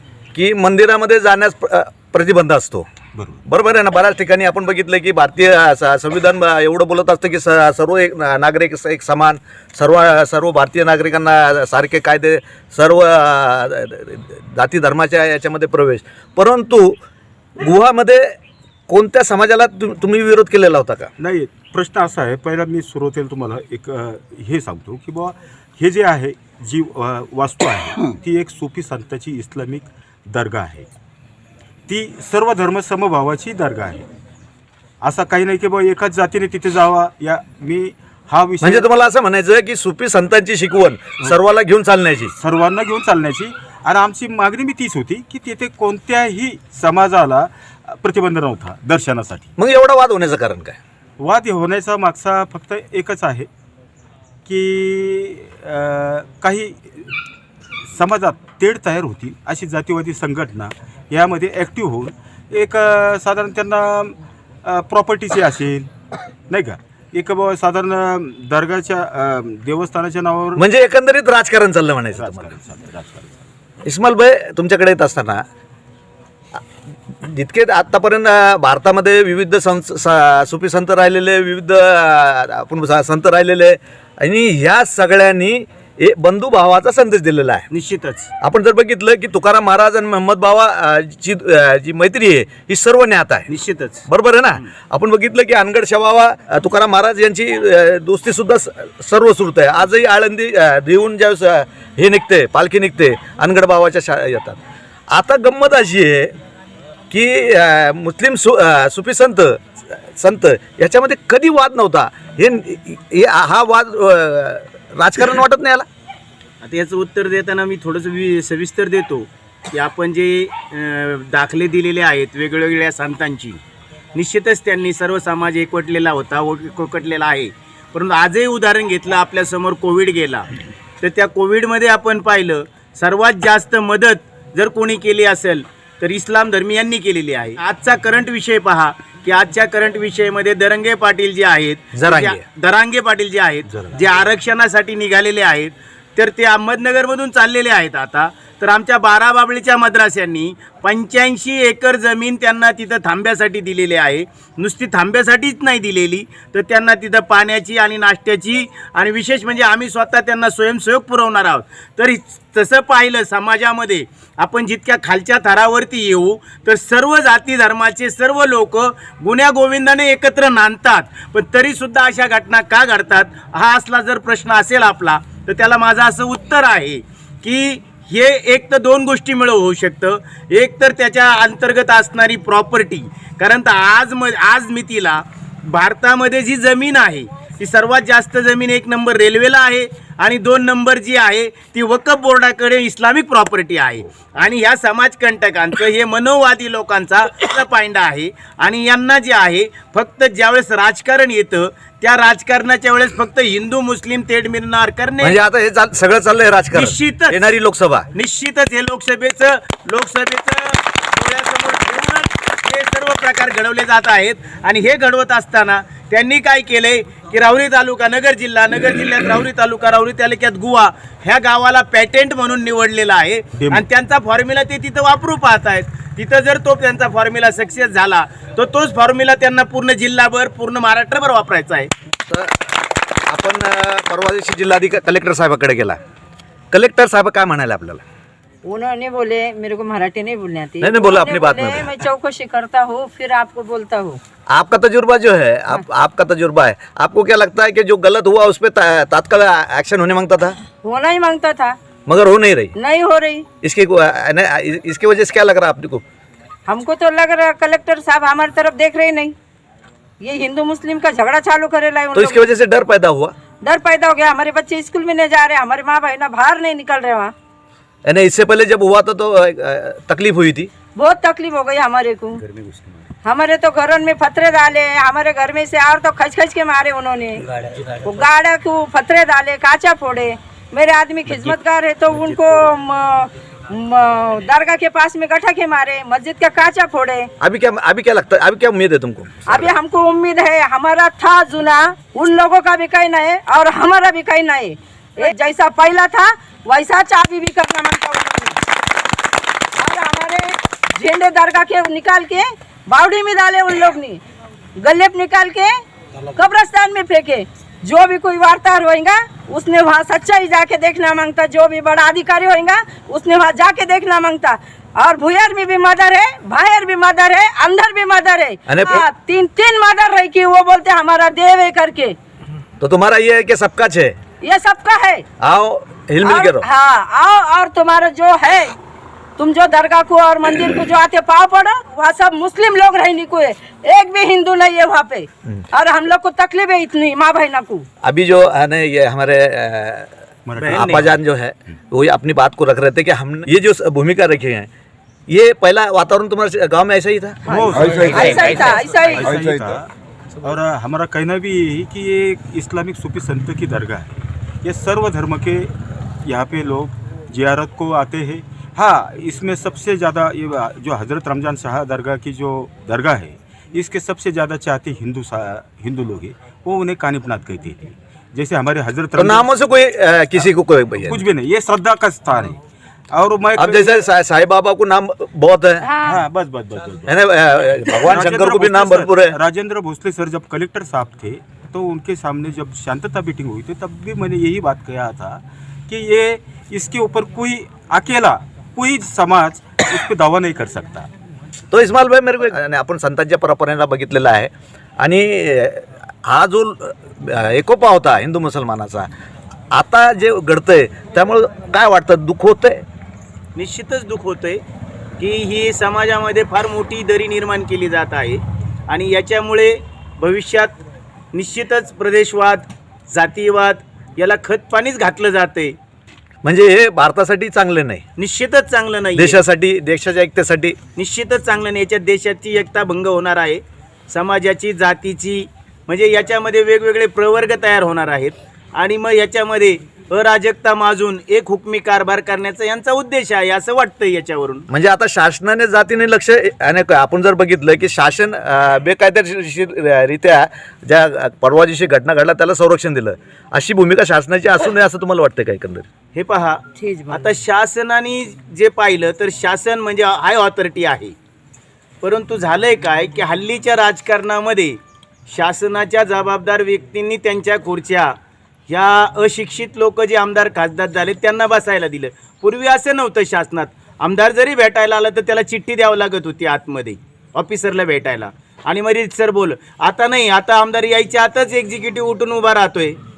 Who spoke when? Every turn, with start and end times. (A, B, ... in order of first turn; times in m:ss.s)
0:00.3-0:02.9 A
0:03.2-0:03.4 B
0:03.5-0:17.0 A
0:17.6-0:18.4 A
0:18.9-0:21.1 A
0:21.2-0:30.9 B
0:31.9-0:34.1 B
0:35.0-0:38.9 B
0:38.6-0:42.4 A
0:42.4-0:49.5 B
0:49.6-0:50.8 A
0:51.2-0:53.5 B
0:54.5-0:57.0 B
0:57.9-1:05.9 B
1:06.5-1:10.6 B
1:10.6-1:12.5 A
1:12.2-1:13.4 B
1:13.8-1:15.4 A
1:16.5-1:27.7 A
1:27.7-1:28.3 C
1:28.4-1:33.5 A
1:33.5-1:34.0 C
1:34.1-1:46.4 A
1:47.1-1:55.9 A
1:56.6-2:03.6 C
2:04.1-2:10.5 C
2:11.0-3:25.4 C
2:21.9-2:22.4 A
3:25.2-3:28.1 A
3:26.7-3:27.4 C
3:28.1-3:51.9 C
3:43.6-3:43.8 B
3:52.3-3:52.7 A
3:53.3-3:56.0 A
3:56.7-3:58.0 A
3:58.6-4:04.2 D
4:00.8-4:02.0 A
4:04.5-4:10.6 A
4:10.8-4:11.8 D
4:12.1-4:12.8 A
4:12.8-4:13.5 D
4:13.6-4:16.0 A
4:16.7-4:19.4 D
4:20.2-4:22.5 D
4:22.1-4:23.3 A
4:23.6-4:27.3 D
4:28.1-4:30.7 A
4:31.0-4:32.4 D
4:32.5-4:32.9 C
4:33.2-4:47.3 D
4:47.4-4:49.7 A
4:49.5-4:58.6 D
4:59.8-5:04.2 D
5:04.8-5:05.7 D
5:06.3-5:22.2 D
5:18.7-5:19.1 A
5:22.8-5:24.2 A
5:24.4-5:25.3 D
5:25.4-5:26.7 A
5:26.2-5:28.8 D
5:29.4-5:37.9 D
5:38.0-5:40.1 A
5:40.5-5:41.2 B
5:40.6-5:41.1 C
5:40.7-5:44.7 A
5:45.3-5:48.1 A
5:47.5-5:49.9 B
5:48.0-5:49.6 D
5:50.4-6:09.5 B
6:09.2-6:11.2 A
6:11.1-6:12.6 B
6:13.1-6:14.1 B
6:13.6-6:15.9 A
6:15.8-6:16.2 D
6:16.0-6:17.1 B
6:17.1-6:19.4 A
6:17.9-6:31.1 B
6:31.7-6:39.1 A
6:39.7-6:42.8 A
6:43.6-6:44.6 C
6:45.2-6:50.8 C
6:51.3-6:55.8 C
6:56.4-6:58.0 A
6:58.2-6:59.4 C
6:59.2-7:00.8 A
7:01.0-7:14.7 C
7:14.7-7:25.9 A
7:26.1-7:31.2 C
7:26.8-7:27.2 D
7:32.0-7:38.2 C
7:38.7-7:53.0 C